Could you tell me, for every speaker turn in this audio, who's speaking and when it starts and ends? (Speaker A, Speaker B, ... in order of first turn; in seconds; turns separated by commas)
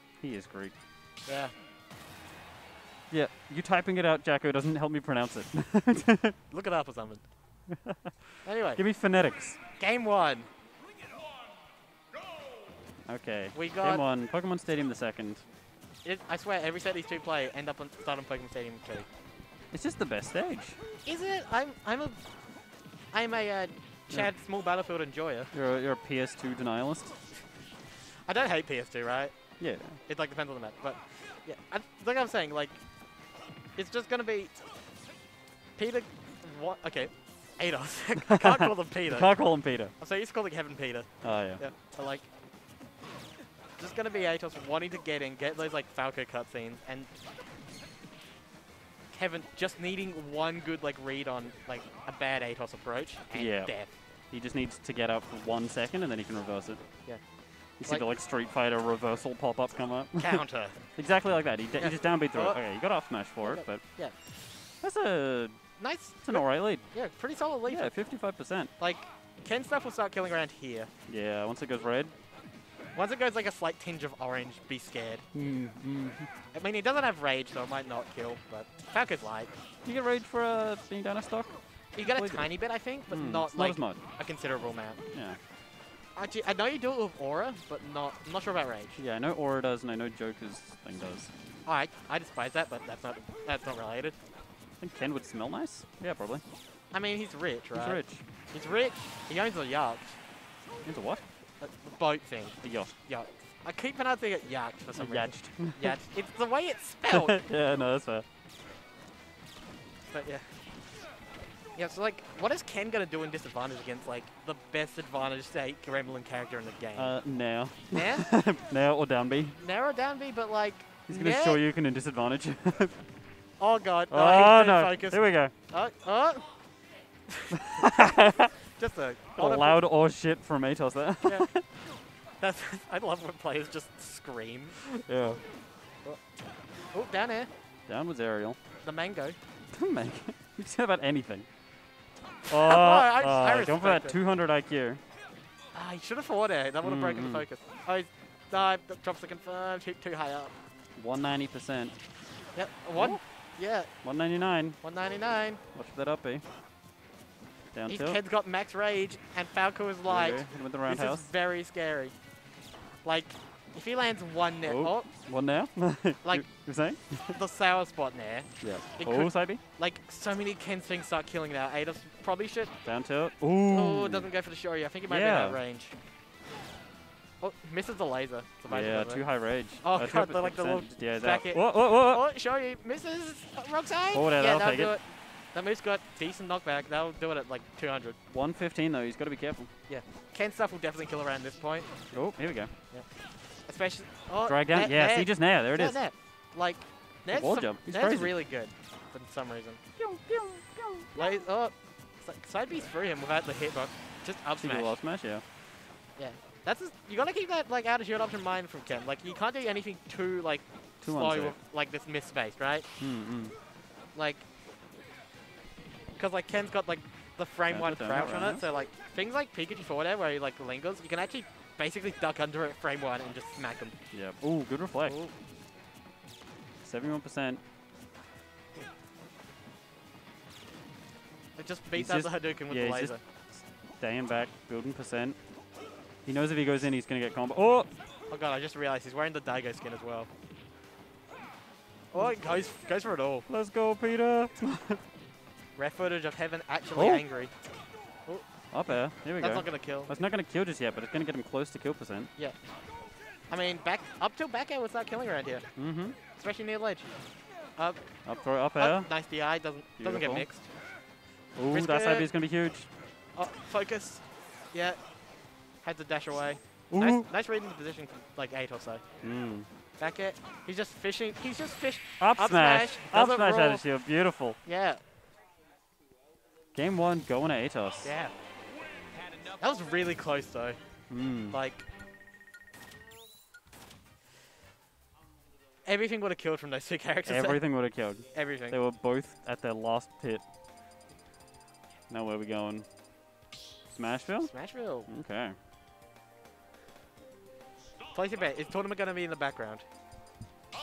Speaker A: 0.2-0.7, Speaker B: 1.2-1.5, Speaker A: 3.1-6.3, Speaker B: 6.5-7.2, Speaker B: 8.4-8.8, Speaker A: 8.8-9.6, Speaker B: 9.8-10.5, Speaker A: 13.1-15.4, Speaker B: 13.5-14.1, Speaker B: 16.0-19.1, Speaker A: 19.7-20.8, Speaker B: 21.0-22.2, Speaker B: 23.1-25.5, Speaker A: 25.5-27.1, Speaker B: 28.2-29.3, Speaker A: 29.6-30.0, Speaker B: 30.1-32.8, Speaker B: 33.7-34.5, Speaker B: 35.7-42.3, Speaker A: 39.1-39.9, Speaker A: 41.2-41.6, Speaker B: 43.8-47.1, Speaker B: 49.1-53.9, Speaker A: 53.3-56.9, Speaker A: 57.8-63.8, Speaker B: 60.2-61.0, Speaker B: 61.8-62.7, Speaker B: 63.4-64.2, Speaker A: 64.8-65.6, Speaker B: 65.8-67.9, Speaker A: 66.2-66.9, Speaker A: 67.7-68.7, Speaker B: 68.8-70.9, Speaker A: 71.1-72.1, Speaker B: 72.9-75.3, Speaker A: 75.3-76.3, Speaker B: 76.5-79.5, Speaker A: 79.8-82.5, Speaker B: 81.9-85.0, Speaker A: 83.1-84.0, Speaker B: 86.1-89.0, Speaker A: 89.0-91.3, Speaker B: 91.6-94.2, Speaker A: 94.8-96.4, Speaker B: 96.9-98.0, Speaker A: 97.7-98.2, Speaker B: 98.5-100.2, Speaker A: 100.8-101.2, Speaker B: 101.6-107.4, Speaker A: 102.6-102.9, Speaker A: 105.0-105.9, Speaker A: 107.1-108.2, Speaker B: 110.1-110.4, Speaker B: 111.7-117.2, Speaker A: 116.9-119.6, Speaker B: 117.9-118.4, Speaker B: 119.6-121.6, Speaker A: 121.1-122.9, Speaker B: 123.6-126.5, Speaker A: 124.1-125.5, Speaker B: 127.3-129.8, Speaker A: 127.7-128.5, Speaker A: 129.3-131.6, Speaker B: 131.2-131.7, Speaker B: 132.4-134.9, Speaker A: 135.0-135.4, Speaker B: 136.9-137.5, Speaker A: 137.9-138.6, Speaker B: 138.8-139.3, Speaker A: 139.7-141.5, Speaker A: 142.5-145.0, Speaker B: 142.5-144.2, Speaker B: 145.7-150.5, Speaker A: 146.8-147.4, Speaker A: 150.9-152.0, Speaker B: 152.5-153.9, Speaker A: 152.9-153.2, Speaker A: 154.0-154.8, Speaker B: 154.8-155.6, Speaker A: 155.7-156.4, Speaker A: 157.7-158.2, Speaker B: 157.9-162.1, Speaker A: 160.0-161.3, Speaker B: 163.0-165.1, Speaker A: 164.6-167.4, Speaker B: 166.2-166.5, Speaker B: 167.3-172.7, Speaker A: 168.6-169.6, Speaker A: 172.8-174.3, Speaker B: 173.6-175.9, Speaker A: 175.0-175.6, Speaker B: 177.4-188.2, Speaker A: 178.7-182.2, Speaker A: 184.1-184.9, Speaker A: 188.3-189.7, Speaker B: 189.9-192.1, Speaker A: 192.1-192.7, Speaker B: 193.7-199.8, Speaker A: 194.4-196.0, Speaker A: 197.3-198.3, Speaker A: 200.0-201.1, Speaker B: 201.1-205.0, Speaker A: 204.6-205.4, Speaker B: 206.2-212.9, Speaker A: 211.0-211.6, Speaker A: 213.0-213.5, Speaker B: 214.1-214.4, Speaker B: 216.2-223.9, Speaker A: 217.7-218.6, Speaker A: 224.1-225.2, Speaker B: 225.0-225.3, Speaker A: 226.8-227.6, Speaker B: 231.6-233.2, Speaker A: 231.9-235.4, Speaker A: 236.2-237.9, Speaker B: 238.3-240.3, Speaker B: 242.1-243.5, Speaker A: 243.5-245.0, Speaker B: 245.8-247.5, Speaker A: 246.9-247.2, Speaker B: 248.2-250.1, Speaker A: 248.7-252.3, Speaker B: 253.5-255.7, Speaker A: 255.8-256.2, Speaker B: 256.3-257.1, Speaker A: 258.2-259.1, Speaker B: 258.7-260.7, Speaker A: 260.0-260.5, Speaker A: 261.6-262.9, Speaker B: 261.7-262.3, Speaker B: 263.4-265.0, Speaker B: 265.8-269.0, Speaker A: 266.9-267.3, Speaker A: 269.2-269.7, Speaker B: 270.0-273.9, Speaker A: 272.2-274.6, Speaker B: 274.6-275.0, Speaker A: 276.7-278.1, Speaker B: 278.0-278.3, Speaker B: 279.6-280.8, Speaker A: 281.1-281.6, Speaker B: 281.5-281.8, Speaker B: 285.8-287.6, Speaker A: 287.2-290.4, Speaker B: 288.3-288.8, Speaker A: 292.1-292.9, Speaker A: 293.9-294.5, Speaker B: 294.5-295.1, Speaker A: 295.1-295.6, Speaker B: 298.1-299.8